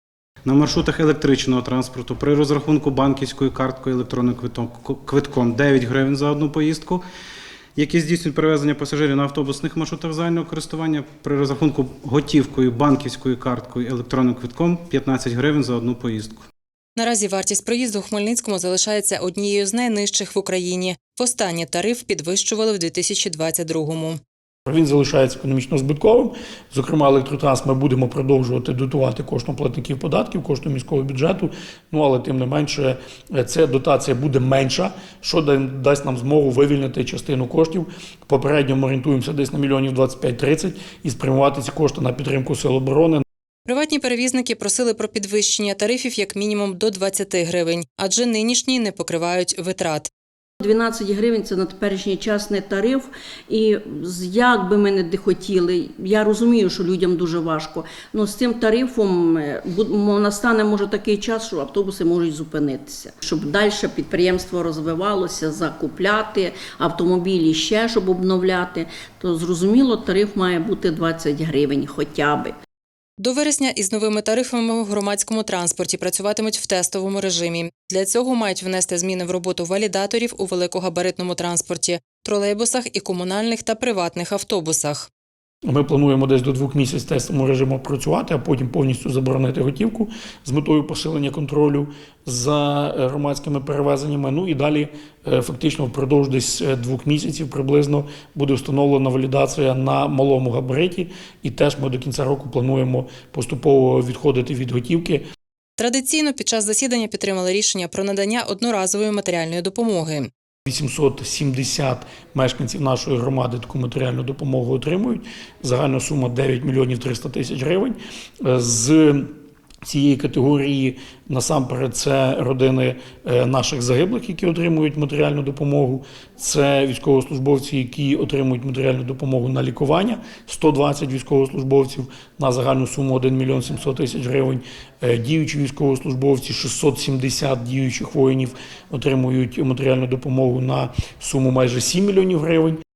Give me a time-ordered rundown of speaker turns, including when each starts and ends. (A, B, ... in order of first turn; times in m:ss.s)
0:00.4-0:07.0 A
0:07.8-0:16.4 A
0:17.0-0:24.2 B
0:24.6-0:43.2 C
0:43.6-0:50.1 B
0:50.6-1:12.5 D
1:13.2-1:25.1 B
1:25.6-1:45.2 C
1:45.8-1:50.3 B
1:50.6-1:59.3 C
1:59.8-2:22.8 C